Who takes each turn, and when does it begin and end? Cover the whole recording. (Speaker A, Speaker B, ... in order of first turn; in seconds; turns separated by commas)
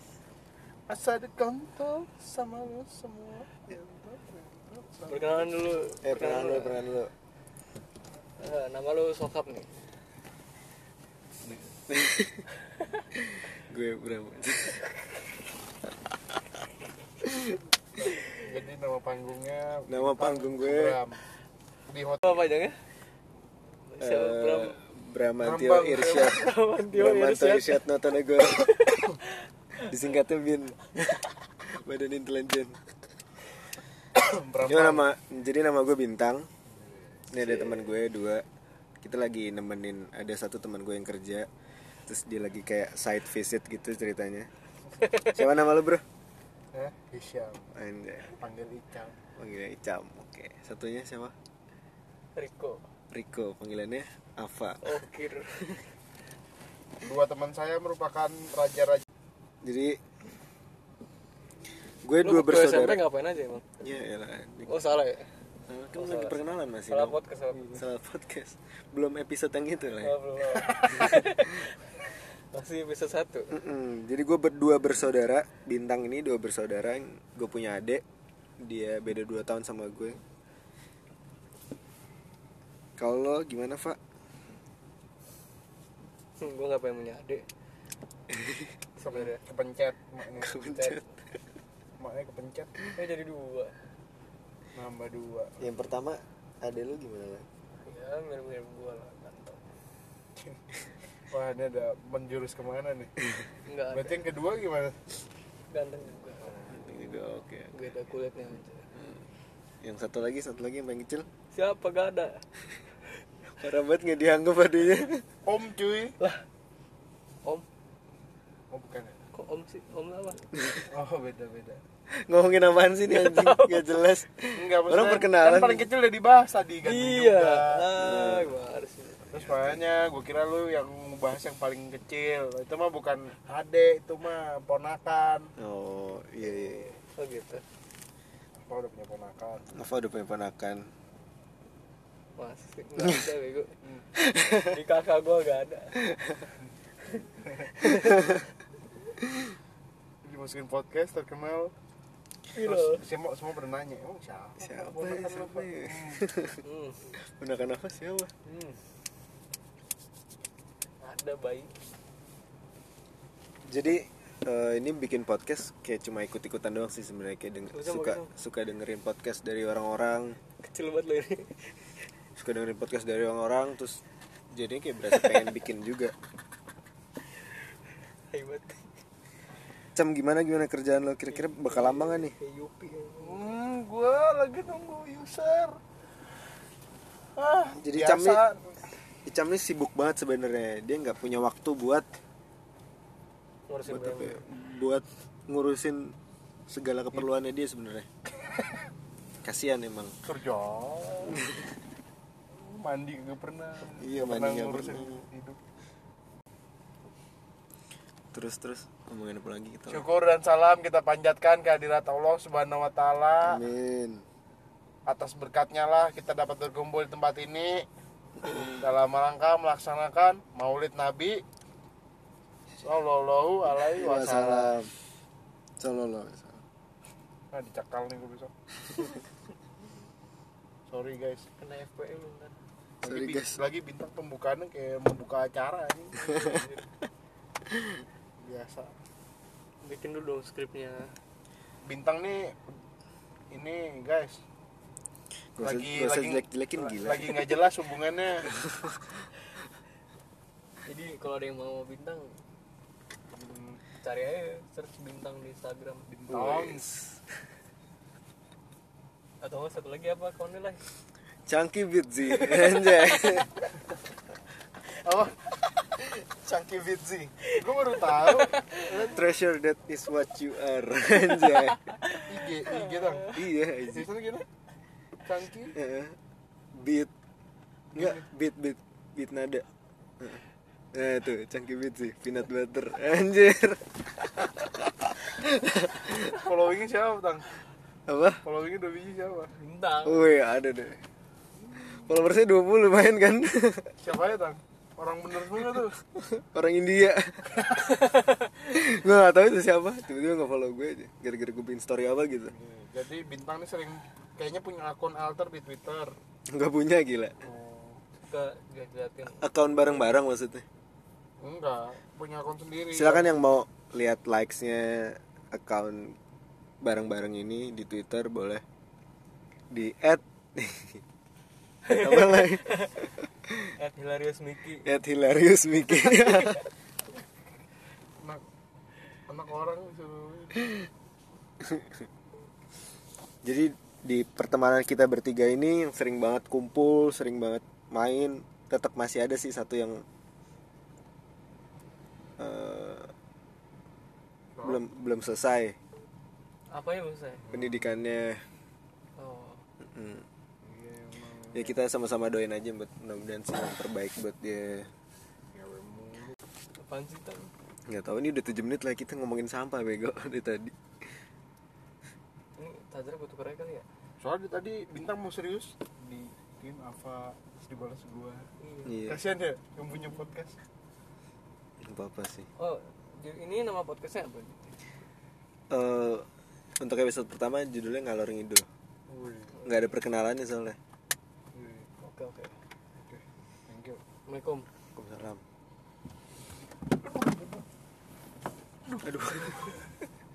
Speaker A: 0.9-5.6, Speaker B: 5.1-6.8, Speaker C: 6.0-7.1, Speaker B: 8.4-9.7, Speaker C: 11.9-12.5, Speaker C: 13.5-14.8, Speaker B: 18.0-18.3, Speaker A: 18.3-21.2, Speaker C: 19.9-21.0, Speaker A: 21.9-22.3, Speaker B: 22.2-22.9, Speaker B: 23.9-24.8, Speaker C: 24.0-29.1, Speaker A: 25.4-26.4, Speaker B: 26.1-27.9, Speaker B: 28.4-29.3, Speaker C: 29.8-30.9, Speaker C: 31.6-32.8, Speaker A: 34.2-35.1, Speaker C: 34.7-36.5, Speaker C: 37.3-38.5, Speaker C: 39.0-41.5, Speaker C: 42.1-44.5, Speaker C: 45.2-46.0, Speaker A: 46.7-47.7, Speaker C: 47.7-48.3, Speaker A: 48.3-49.2, Speaker C: 49.4-51.3, Speaker B: 52.4-52.8, Speaker C: 53.1-54.9, Speaker B: 54.8-55.9, Speaker A: 57.0-59.0, Speaker C: 59.6-60.0, Speaker C: 62.0-63.0, Speaker B: 62.2-63.6, Speaker C: 63.8-64.7, Speaker B: 64.7-65.3, Speaker C: 65.7-70.2, Speaker B: 65.9-67.8, Speaker B: 70.0-73.6, Speaker C: 73.5-78.0, Speaker C: 78.6-80.2, Speaker C: 83.0-84.0, Speaker B: 86.4-87.5, Speaker C: 88.4-88.6, Speaker A: 89.0-90.6, Speaker B: 89.0-89.4, Speaker C: 90.4-91.1, Speaker B: 90.5-91.1, Speaker A: 92.0-93.0, Speaker B: 92.9-93.8, Speaker A: 94.8-95.6, Speaker C: 95.6-97.5, Speaker B: 97.8-99.6, Speaker A: 101.3-103.1, Speaker B: 103.7-104.2, Speaker A: 103.9-105.0, Speaker B: 105.7-106.8, Speaker C: 106.7-107.7, Speaker B: 107.7-108.8, Speaker C: 109.8-111.3, Speaker B: 111.5-112.4, Speaker C: 113.6-115.3, Speaker A: 115.5-116.2, Speaker A: 118.7-119.2, Speaker B: 119.3-120.7, Speaker A: 120.9-121.8, Speaker C: 122.1-125.9, Speaker B: 123.1-124.1, Speaker A: 124.5-127.9, Speaker B: 126.8-129.2, Speaker C: 128.0-128.5, Speaker C: 129.3-129.8, Speaker A: 129.3-135.5, Speaker C: 135.6-137.0, Speaker B: 137.2-137.6, Speaker A: 138.7-139.8, Speaker C: 139.7-140.9, Speaker B: 142.4-143.7, Speaker C: 144.4-144.6, Speaker B: 144.5-146.0, Speaker B: 147.8-148.3, Speaker A: 150.2-151.7, Speaker B: 152.5-153.0, Speaker A: 152.6-156.2, Speaker C: 154.6-156.6, Speaker B: 156.6-157.1, Speaker C: 157.2-158.3, Speaker B: 158.4-158.8, Speaker B: 161.0-161.7, Speaker C: 163.7-170.4, Speaker B: 167.7-168.3, Speaker B: 170.6-172.0, Speaker C: 172.4-176.1, Speaker B: 175.1-175.6, Speaker B: 178.3-178.8, Speaker C: 179.9-182.3, Speaker B: 181.3-183.5, Speaker A: 183.2-185.8, Speaker A: 187.4-188.7, Speaker C: 187.8-188.4, Speaker C: 189.3-192.1, Speaker B: 193.7-194.4, Speaker C: 193.9-196.2, Speaker C: 196.7-198.1, Speaker C: 199.4-200.2, Speaker A: 200.2-201.4, Speaker C: 201.4-201.6, Speaker A: 202.5-205.6, Speaker C: 204.0-205.2, Speaker C: 208.3-210.1, Speaker A: 209.9-213.6, Speaker C: 213.4-214.2, Speaker A: 215.1-217.9, Speaker A: 218.5-221.4, Speaker A: 222.8-224.8, Speaker C: 223.9-224.9, Speaker C: 225.8-226.6, Speaker A: 227.5-228.5, Speaker A: 230.9-231.5, Speaker B: 231.6-232.5, Speaker A: 233.0-236.4, Speaker C: 233.0-233.6, Speaker B: 236.2-236.8, Speaker A: 238.4-238.9, Speaker B: 239.8-241.1, Speaker A: 241.8-242.6, Speaker A: 243.5-244.4, Speaker C: 245.6-247.5, Speaker A: 245.6-248.5, Speaker C: 248.5-249.1, Speaker B: 250.8-252.4, Speaker A: 253.3-253.8, Speaker B: 254.0-256.1, Speaker A: 256.1-256.9, Speaker C: 256.3-257.1, Speaker B: 259.4-260.8, Speaker C: 261.5-263.5, Speaker B: 262.3-262.8, Speaker A: 265.0-265.4, Speaker C: 266.0-267.3, Speaker A: 267.5-269.3, Speaker B: 268.2-268.9, Speaker C: 269.1-271.9, Speaker B: 271.4-273.3, Speaker A: 272.3-274.5, Speaker C: 273.3-274.1, Speaker A: 275.2-275.8, Speaker C: 275.7-276.2, Speaker C: 276.8-277.1, Speaker A: 277.9-278.2, Speaker C: 277.9-279.6, Speaker C: 280.2-286.4, Speaker A: 286.3-287.6, Speaker C: 288.1-288.4, Speaker A: 288.4-289.5, Speaker B: 289.5-290.3, Speaker C: 290.0-291.0, Speaker C: 291.9-294.0, Speaker A: 294.0-296.0, Speaker C: 296.1-302.5, Speaker A: 302.5-306.1, Speaker C: 306.5-307.4, Speaker A: 307.4-308.0, Speaker B: 308.2-309.5, Speaker C: 309.3-310.6, Speaker A: 311.4-313.4, Speaker C: 312.9-316.2, Speaker C: 316.8-318.6, Speaker C: 319.7-321.0, Speaker C: 321.9-322.9, Speaker B: 321.9-322.9, Speaker B: 323.6-324.9, Speaker C: 324.8-326.6, Speaker A: 329.3-330.7, Speaker C: 331.6-332.0, Speaker C: 333.4-340.0, Speaker C: 342.4-343.1, Speaker A: 344.6-344.8, Speaker C: 344.6-345.8, Speaker B: 346.7-347.5, Speaker C: 347.5-348.4, Speaker B: 349.2-349.6, Speaker C: 349.8-350.2, Speaker A: 350.6-351.8, Speaker C: 351.5-354.9, Speaker A: 355.5-356.4, Speaker B: 356.8-357.5, Speaker C: 357.9-360.8, Speaker B: 362.6-363.9, Speaker A: 364.2-368.5, Speaker B: 368.6-369.0, Speaker C: 368.9-369.2, Speaker A: 369.1-370.6, Speaker C: 371.8-372.5, Speaker B: 372.6-374.8, Speaker C: 375.7-376.3, Speaker C: 376.8-378.7, Speaker A: 379.1-379.6, Speaker C: 379.6-380.8, Speaker A: 381.6-381.9, Speaker B: 382.0-382.6, Speaker A: 383.1-384.0, Speaker B: 384.3-384.7, Speaker C: 384.9-385.4, Speaker A: 387.0-387.6, Speaker C: 389.0-389.8